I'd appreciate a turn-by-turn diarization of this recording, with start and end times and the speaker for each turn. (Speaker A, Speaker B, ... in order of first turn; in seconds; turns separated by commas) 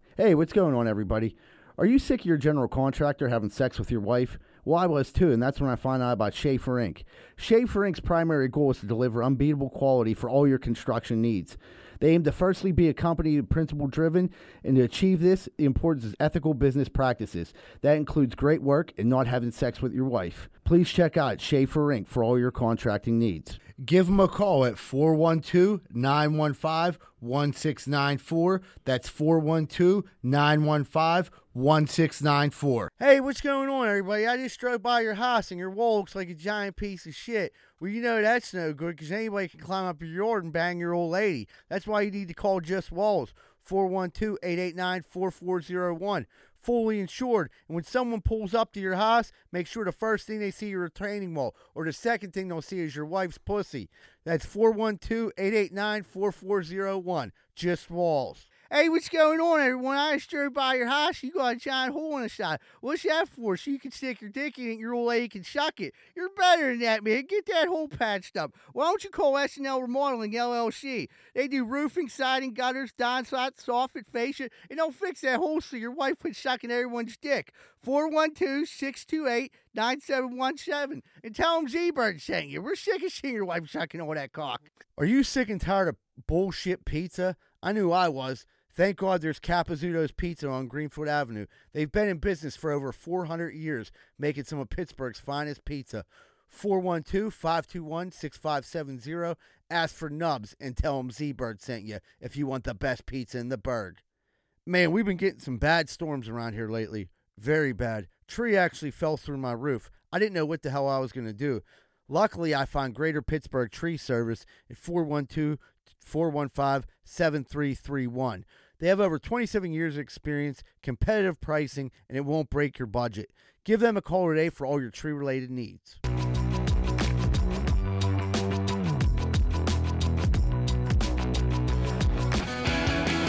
Speaker A: 0.2-104.0, Speaker A: 104.7-126.0